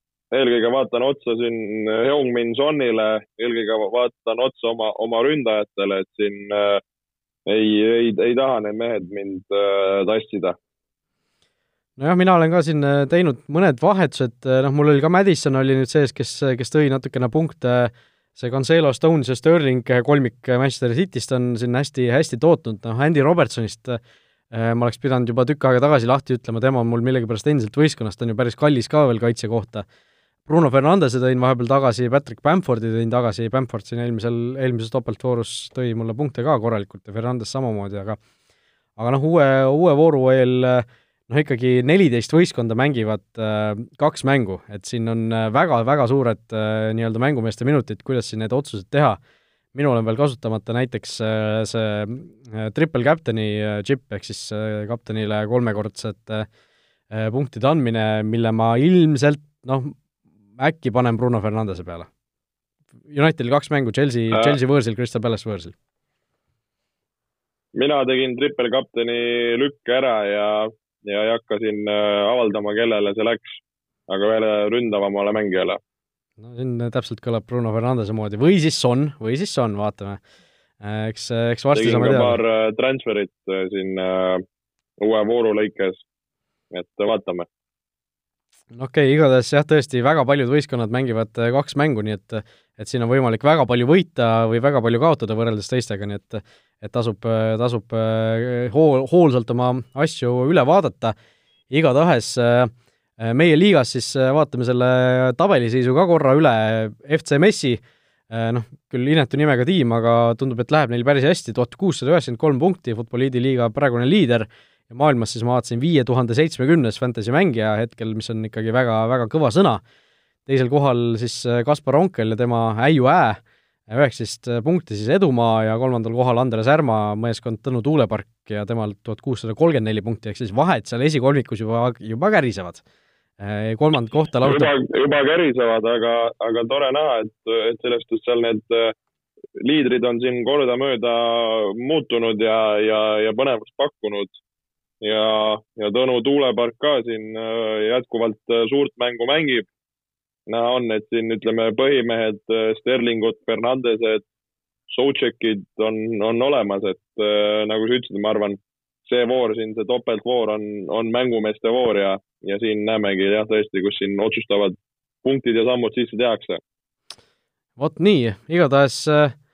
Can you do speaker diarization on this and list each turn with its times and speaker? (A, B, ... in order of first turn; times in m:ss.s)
0:00.3-0:06.8 A
0:07.5-0:10.6 A
0:12.0-0:24.0 B
0:24.5-0:29.8 B
0:30.4-0:38.2 B
0:39.0-0:49.2 B
0:49.7-0:56.5 B
0:57.1-1:00.0 B
1:00.6-1:02.1 B
1:03.1-1:05.7 B
1:04.3-1:04.6 A
1:07.7-1:15.8 A
1:16.4-1:20.2 B
1:20.8-1:22.4 B
1:21.7-1:24.4 A
1:25.0-1:26.0 A
1:26.7-1:27.5 A
1:28.7-1:41.1 B
1:41.7-1:59.8 B
2:00.4-2:12.8 B
2:13.4-2:14.7 B
2:14.4-2:18.9 A
2:19.6-2:24.4 A
2:25.0-2:29.7 A
2:30.5-2:34.2 A
2:34.9-2:46.6 A
2:47.8-2:49.3 B